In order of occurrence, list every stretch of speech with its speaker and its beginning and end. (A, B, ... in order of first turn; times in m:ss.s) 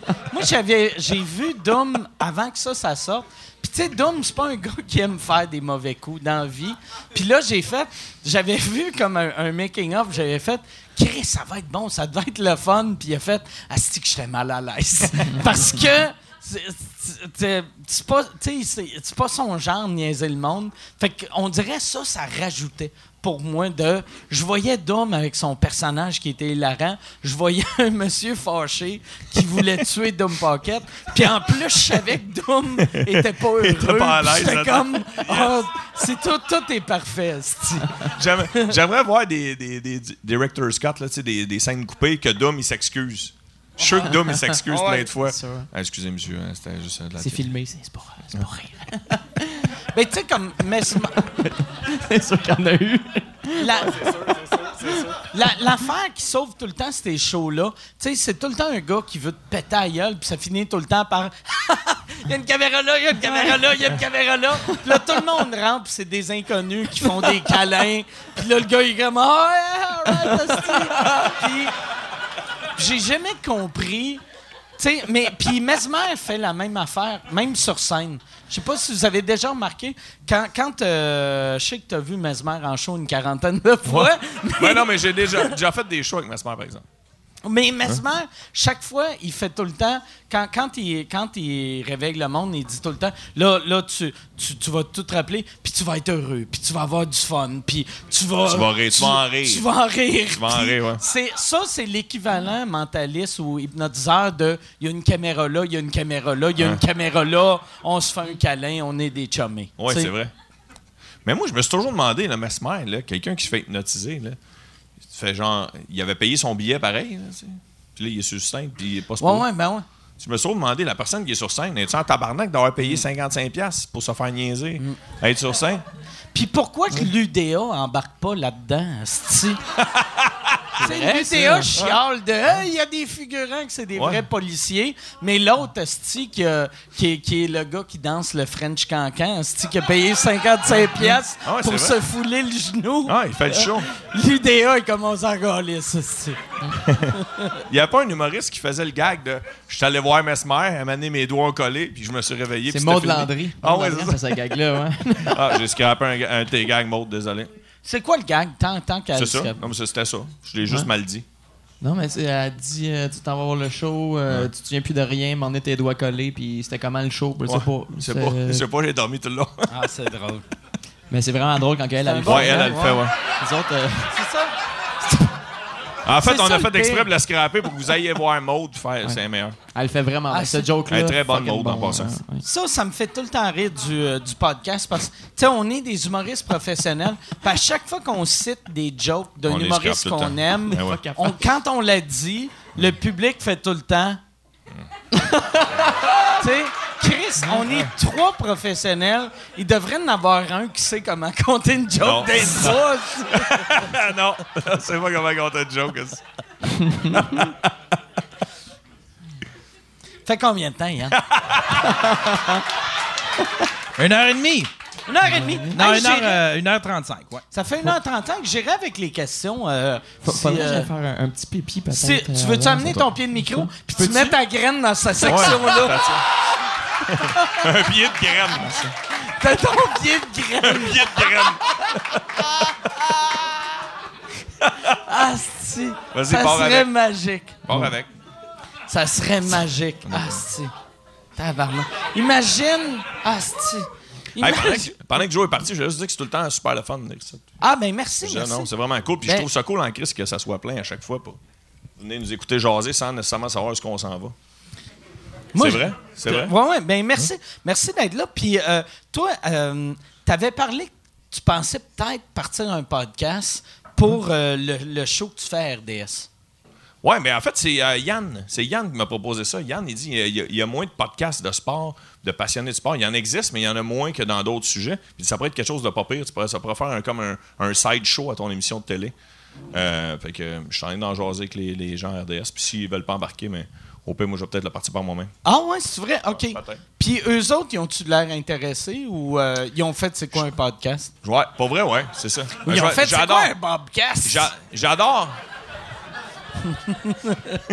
0:00.3-0:38.7 A
0:32.8-0:35.6 B
0:38.2-0:47.5 B
0:44.1-0:45.7 C
0:47.2-0:49.8 C
0:49.9-0:51.3 A
0:51.2-0:53.9 C
0:53.6-0:54.1 A
0:53.8-0:55.2 B
0:55.1-1:11.7 A
1:03.2-1:03.6 C
1:07.1-1:07.4 C
1:12.8-1:14.2 A
1:14.8-1:25.5 A
1:23.8-1:26.9 B
1:27.4-1:50.1 A
1:38.4-1:39.6 B
1:40.3-1:41.0 B
1:49.8-1:50.3 B
1:51.2-1:54.4 B
1:55.1-1:59.4 B
1:59.2-1:59.8 A
2:00.2-2:05.8 B
2:06.4-2:09.6 A
2:09.8-2:10.8 B
2:10.8-2:27.5 A
2:10.8-2:11.7 C
2:14.0-2:14.2 B
2:21.4-2:22.0 B
2:23.0-2:23.9 B
2:27.6-2:34.6 B
2:32.7-2:35.6 C
2:35.2-2:37.5 B
2:37.8-2:39.6 A
2:39.1-2:41.2 B
2:41.8-2:48.6 C
2:47.5-2:49.7 B
2:49.7-2:50.4 A
2:51.1-2:54.2 C
2:52.0-2:53.1 A
2:52.2-2:53.2 B
2:54.1-2:54.5 A
2:56.0-2:59.6 B
2:56.2-2:57.1 A
2:59.7-3:02.4 C
3:00.3-3:00.7 A
3:00.9-3:02.2 B
3:02.4-3:14.2 A
3:09.4-3:11.0 B
3:10.7-3:11.4 C
3:15.2-3:16.0 C
3:16.4-3:23.9 A
3:22.0-3:26.2 B
3:26.8-3:27.2 C
3:27.1-3:27.7 B
3:30.3-3:31.2 A
3:31.1-3:31.9 B
3:31.8-3:32.6 C
3:34.0-3:34.7 D
3:35.1-3:36.4 A
3:35.3-3:35.8 C
3:35.7-3:37.4 D
3:37.5-3:40.9 A
3:40.2-3:44.4 C
3:41.9-3:46.0 A
3:45.2-3:46.3 B
3:47.1-3:48.8 B
3:47.4-3:47.6 A
3:48.6-3:48.9 C
3:49.1-3:51.6 A
3:50.6-3:53.1 B
3:54.6-3:54.9 B
3:54.9-3:57.6 A
3:56.1-3:56.9 B
3:57.6-3:58.1 B
3:58.9-4:00.7 A
4:00.1-4:00.4 B
4:01.4-4:05.2 A
4:04.4-4:07.4 B
4:07.6-4:08.7 A
4:08.2-4:11.4 B
4:12.0-4:14.4 B
4:15.5-4:26.3 A
4:15.6-4:16.5 B
4:27.0-4:39.1 B
4:39.7-4:45.3 B
4:45.4-4:51.1 A
4:46.3-4:46.8 B
4:51.2-4:53.6 B
4:52.6-4:54.5 A
4:54.2-4:55.4 B
4:56.7-4:57.6 A